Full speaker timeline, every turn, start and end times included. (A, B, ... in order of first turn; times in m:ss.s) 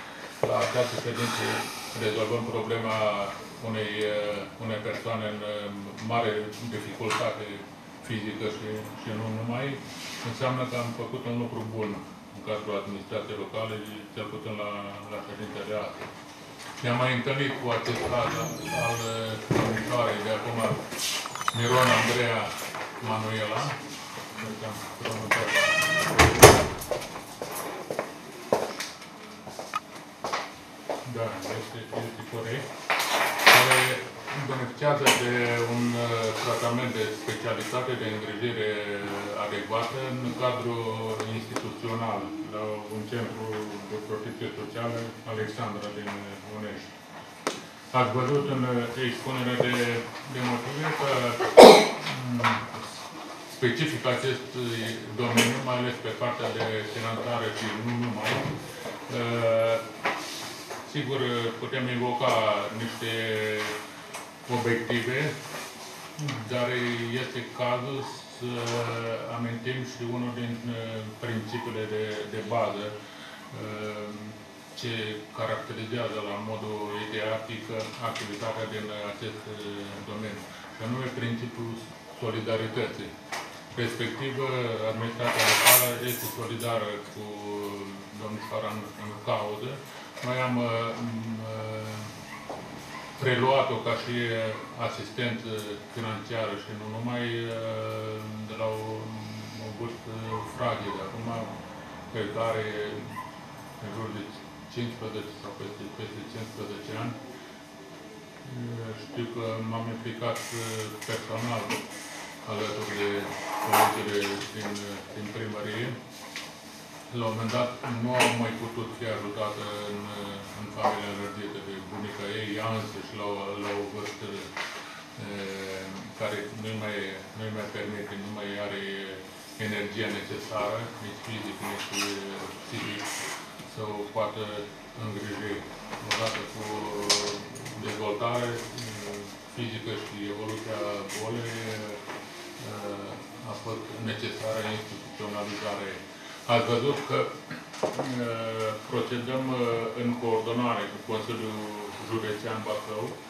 0:00.4-0:16.1 A
0:16.8-0:20.8 A
0:21.5-0:23.8 A
0:24.3-0:26.6 A
0:31.0-0:32.6 A
0:33.5-0:46.9 A
0:47.9-0:52.9 A
0:53.5-0:58.5 A
0:59.1-0:59.8 A
1:00.9-1:03.8 A
1:04.5-1:05.3 A
1:06.2-1:12.9 A
1:13.5-1:23.1 A
1:23.7-1:32.2 A
1:33.2-1:41.5 A
1:42.1-1:43.2 A
1:43.8-1:47.2 A
1:48.4-1:51.8 A
1:52.4-1:56.0 A
1:57.1-2:04.5 A
2:05.2-2:13.1 A
2:13.7-2:22.0 A
2:22.6-2:33.2 A